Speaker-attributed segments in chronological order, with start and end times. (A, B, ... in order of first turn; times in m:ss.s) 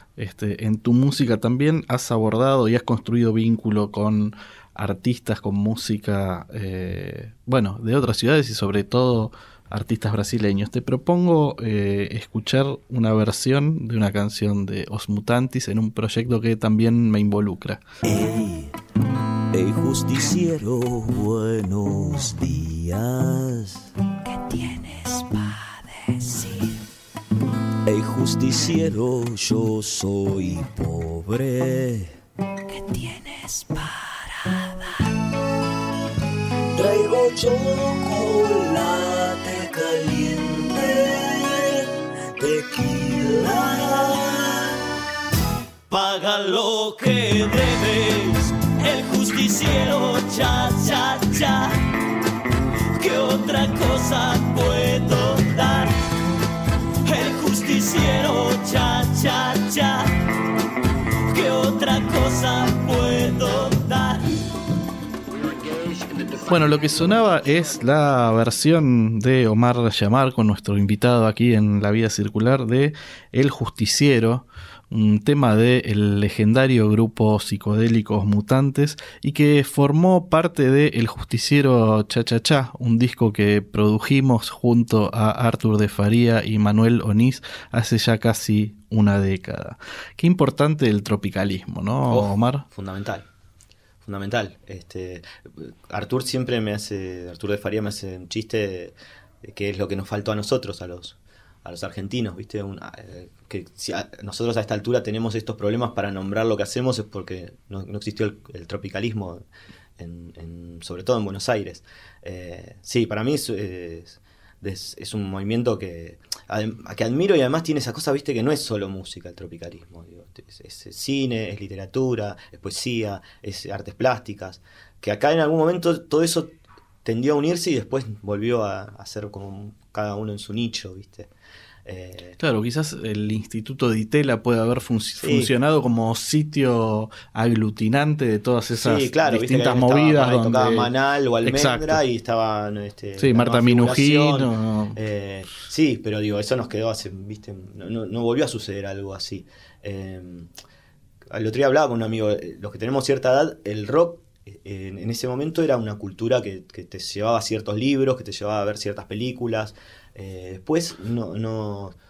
0:00.2-0:17.8 A
0:18.0-0:18.7 B
0:19.5-0:26.7 B
0:27.8-0:32.1 B
0:32.7-0:35.1 B
0:36.7-0:44.8 B
0:45.9-0:51.8 B
0:53.0-0:55.9 B
0:57.0-1:00.1 B
1:01.3-1:04.4 B
1:06.5-1:32.6 A
1:32.1-1:33.2 C
1:34.0-1:49.4 C
1:50.0-2:06.5 C
2:07.0-2:11.3 C
2:11.8-2:12.4 C
2:12.4-2:20.9 A
2:15.2-2:15.5 C
2:18.7-2:30.5 C
2:21.4-2:22.0 A
2:23.2-2:25.0 A
2:31.3-2:41.9 C